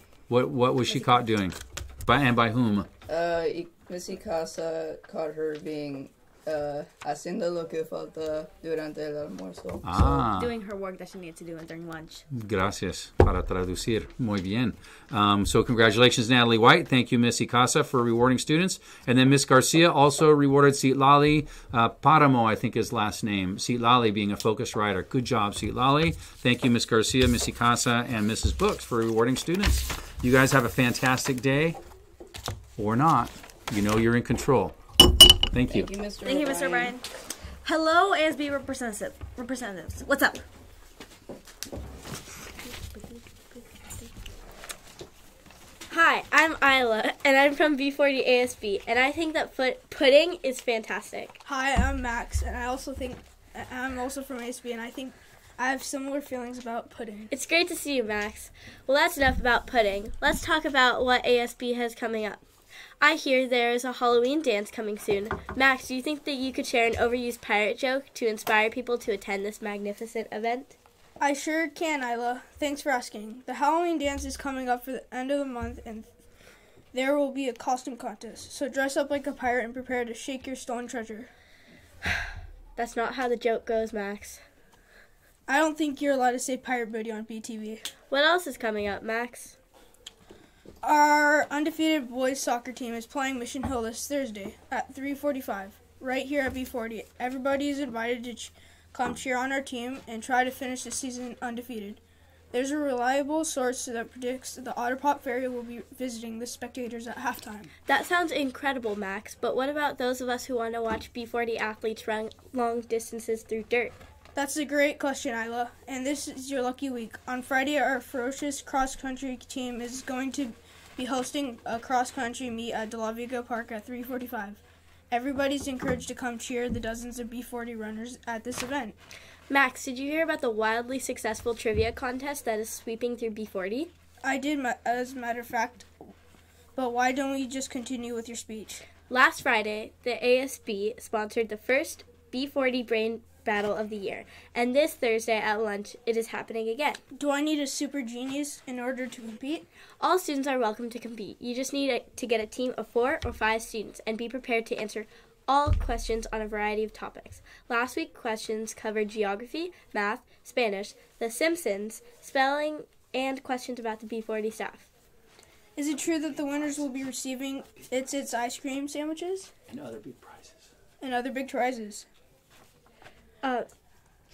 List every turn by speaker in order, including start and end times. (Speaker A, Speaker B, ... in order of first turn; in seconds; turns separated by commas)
Speaker A: 0.3-2.9, Speaker B: 3.1-10.2, Speaker A: 9.8-10.5, Speaker C: 10.3-12.2, Speaker A: 12.3-31.8, Speaker A: 32.8-34.8, Speaker A: 35.5-35.9, Speaker B: 35.7-37.0, Speaker C: 36.2-37.0, Speaker C: 37.6-40.4, Speaker D: 45.9-51.4, Speaker E: 51.4-57.3, Speaker D: 57.3-62.4, Speaker D: 63.0-70.7, Speaker E: 71.2-76.1, Speaker E: 76.9-81.3, Speaker D: 82.8-84.4, Speaker E: 85.5-87.8, Speaker D: 88.1-89.5, Speaker E: 90.8-102.0, Speaker E: 102.5-107.7, Speaker D: 107.8-114.0, Speaker E: 114.3-128.9, Speaker D: 129.5-133.9, Speaker E: 134.2-135.9, Speaker E: 136.7-138.9, Speaker D: 139.1-147.0, Speaker E: 147.1-149.7, Speaker D: 150.0-164.9, Speaker E: 165.8-169.5, Speaker A: 169.7-170.6, Speaker E: 171.0-172.1, Speaker D: 173.4-173.7